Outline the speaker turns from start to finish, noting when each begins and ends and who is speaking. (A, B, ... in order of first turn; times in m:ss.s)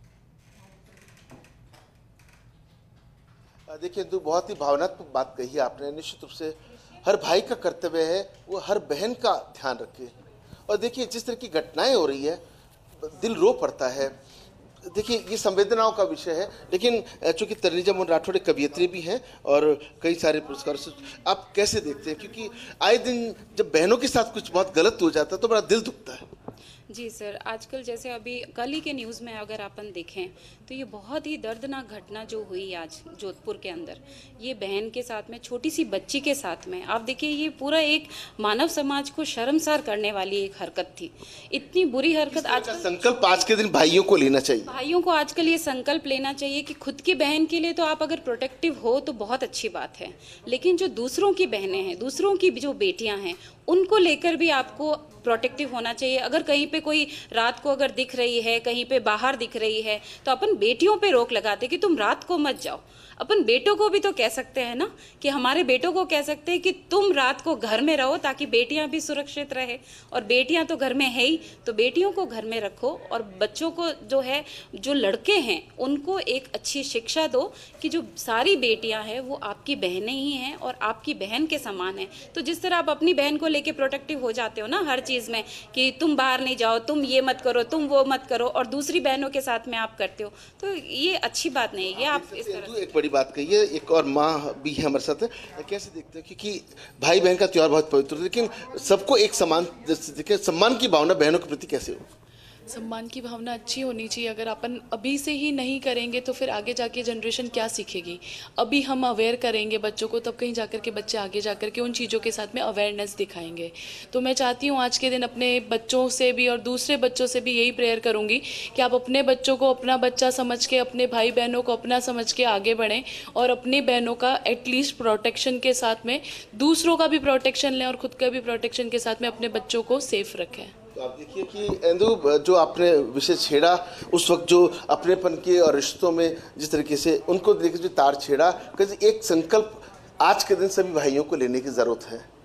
0:03.7-0:10.1 A
0:10.7-0:12.4 A
0:13.0-0:14.2 A
0:14.8-0:26.3 A
0:26.9-0:43.4 B
0:42.3-0:44.7 A
0:44.7-1:32.9 B
1:32.0-1:42.1 A
1:42.7-2:10.7 C
2:11.0-2:22.3 A